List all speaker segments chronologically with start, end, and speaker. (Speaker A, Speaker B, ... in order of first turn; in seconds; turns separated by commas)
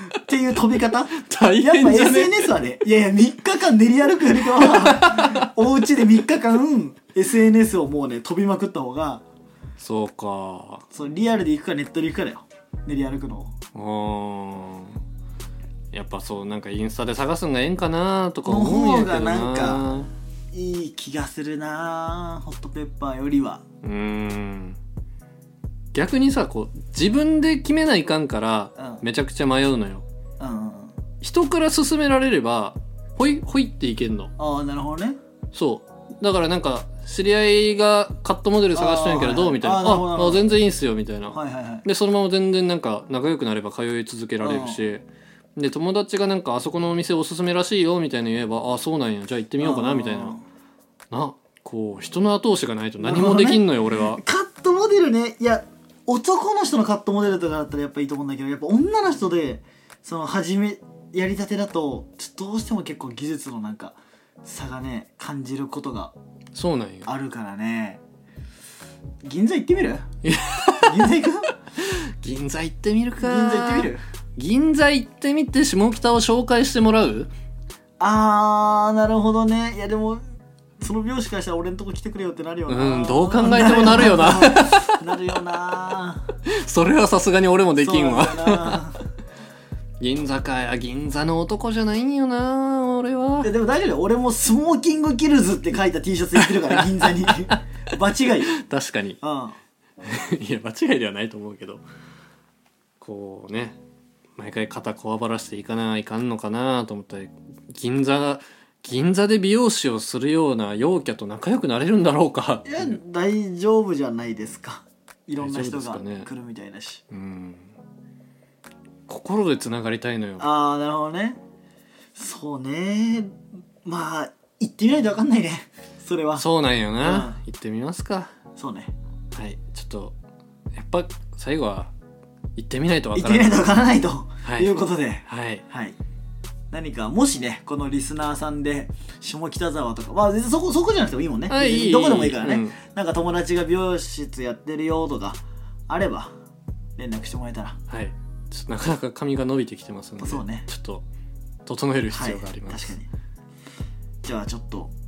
Speaker A: 0.3-9.2, Speaker B: 1.2-2.5, Speaker B: 4.6-5.5, Speaker B: 9.8-10.8, Speaker A: 10.9-13.6, Speaker B: 13.8-15.0, Speaker B: 15.9-20.1, Speaker A: 18.4-19.9, Speaker A: 20.5-23.6, Speaker B: 23.8-24.8, Speaker B: 25.9-30.0, Speaker A: 28.8-29.0, Speaker A: 30.4-30.9, Speaker B: 31.2-34.3, Speaker A: 34.4-35.2, Speaker B: 35.5-45.1, Speaker A: 38.7-40.5, Speaker A: 41.3-41.9, Speaker A: 44.4-44.8, Speaker B: 45.6-50.4, Speaker A: 49.6-50.4, Speaker B: 51.1-54.2, Speaker A: 53.0-66.1, Speaker B: 66.5-67.1, Speaker A: 67.1-68.0, Speaker A: 69.2-70.0, Speaker B: 70.2-71.1, Speaker A: 70.8-71.5, Speaker B: 71.8-77.3, Speaker A: 73.2-74.0, Speaker A: 78.0-80.2, Speaker A: 80.8-86.3, Speaker B: 82.7-85.0, Speaker B: 86.5-88.8, Speaker A: 87.8-89.0, Speaker B: 90.0-93.5, Speaker A: 93.4-98.5, Speaker B: 96.4-97.6, Speaker B: 98.5-99.2, Speaker A: 99.2-99.6, Speaker B: 100.0-101.8, Speaker B: 103.0-103.8, Speaker B: 104.4-113.0, Speaker A: 112.7-117.0, Speaker B: 115.4-116.3, Speaker B: 117.1-117.7, Speaker B: 119.1-120.5, Speaker A: 120.4-121.4, Speaker A: 122.2-126.5, Speaker B: 126.4-128.3, Speaker A: 127.0-127.4, Speaker A: 128.6-128.9, Speaker B: 129.3-130.2, Speaker B: 130.7-131.9, Speaker B: 132.6-133.8, Speaker A: 133.2-136.0, Speaker B: 134.4-135.6, Speaker A: 136.7-146.3, Speaker B: 141.5-142.8, Speaker A: 147.0-147.8, Speaker B: 147.9-151.1, Speaker A: 150.2-150.7, Speaker B: 151.7-152.9, Speaker A: 152.1-153.1, Speaker A: 154.2-154.9